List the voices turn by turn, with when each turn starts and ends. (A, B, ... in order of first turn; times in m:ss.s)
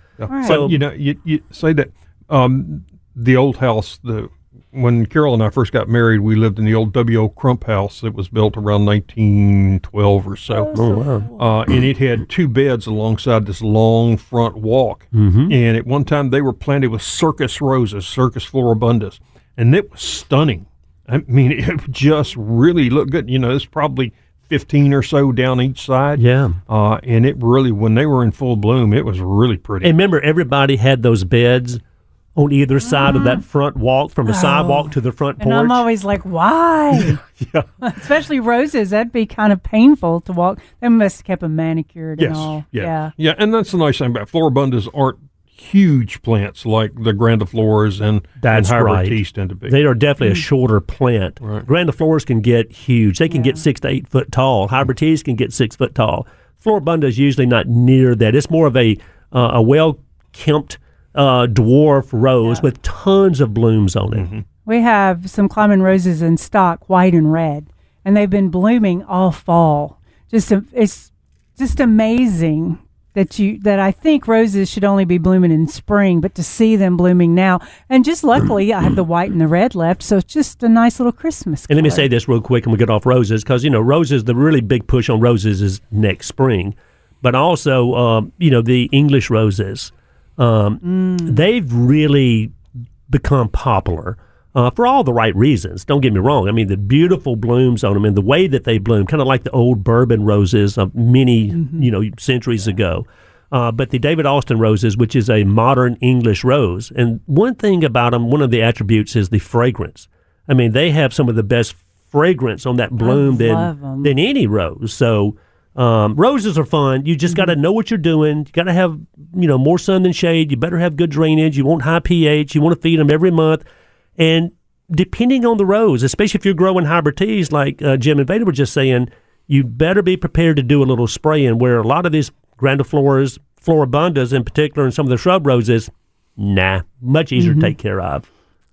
0:00.2-0:10.7 A
0:00.3-0:00.6 B
0:00.4-0:00.8 C
0:10.6-0:11.0 B
0:10.7-0:11.3 C
0:11.3-0:29.9 A
0:15.1-0:15.5 C
0:26.2-0:26.6 C
0:29.8-0:31.8 C
0:32.4-0:35.8 C
0:32.8-0:33.4 B
0:34.3-0:37.2 B
0:37.0-0:37.7 A
0:37.8-0:43.1 B
0:42.2-0:49.8 A
0:48.4-1:04.3 C
0:51.4-0:51.6 A
0:53.3-0:53.6 B
1:04.1-1:04.4 A
1:04.6-1:22.1 B
1:21.7-1:32.6 C
1:30.8-1:31.4 B
1:33.1-2:03.6 C
1:41.6-1:41.8 B
1:53.0-1:54.1 B
1:57.3-1:57.5 B
2:04.2-2:18.3 C
2:17.4-2:17.7 B